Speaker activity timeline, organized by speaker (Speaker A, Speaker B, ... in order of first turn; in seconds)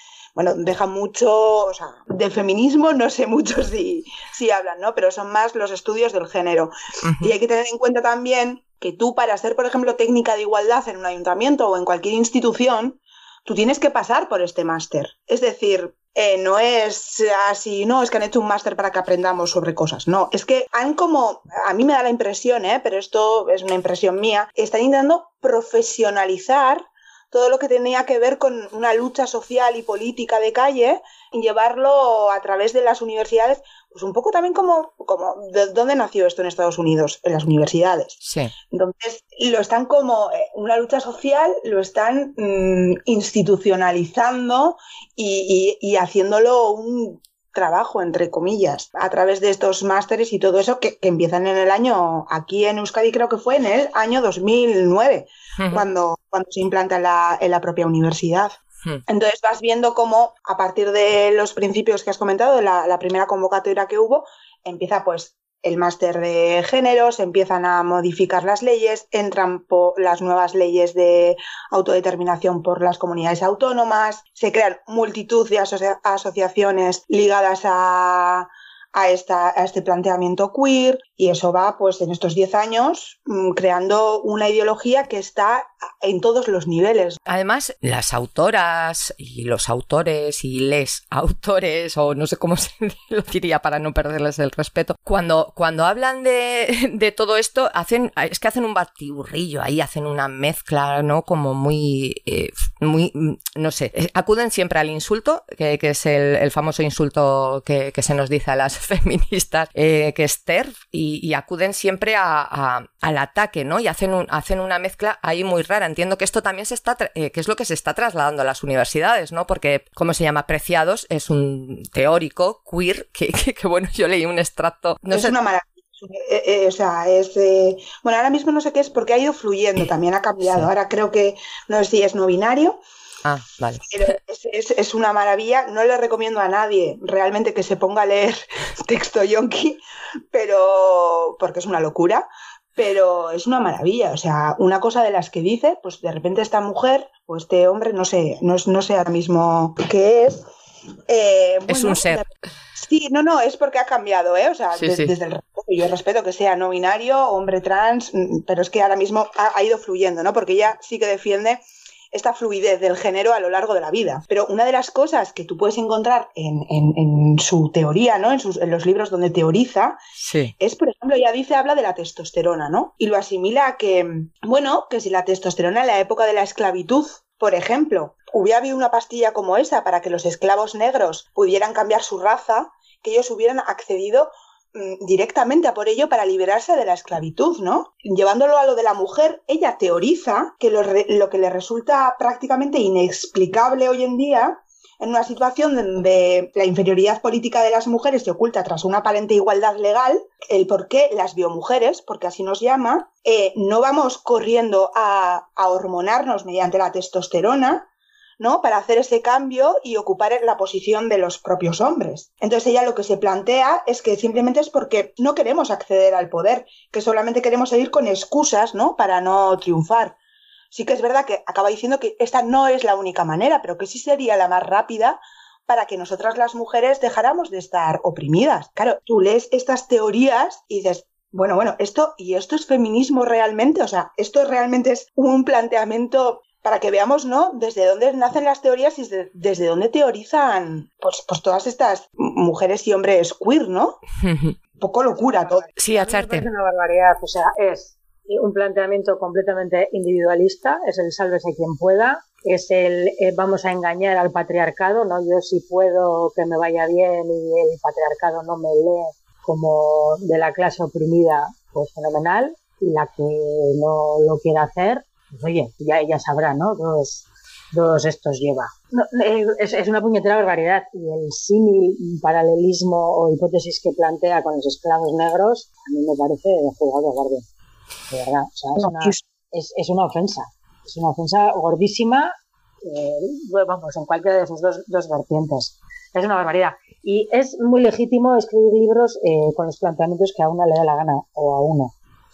Speaker A: 0.4-38.2, 38.7-58.6, 59.1-87.2, 125.1-132.8, 133.9-139.8, 140.3-150.5, 151.1-170.0, 170.6-207.9, 208.4-220.2, 220.7-244.0, 244.8-245.7, 278.8-279.2
Speaker B: 7.1-7.3, 38.2-38.5, 55.6-55.9, 87.3-125.4, 133.2-134.0, 151.7-152.2, 154.7-155.1, 170.2-170.5, 244.2-244.6, 245.8-246.5
Speaker C: 245.7-277.5, 278.1-291.9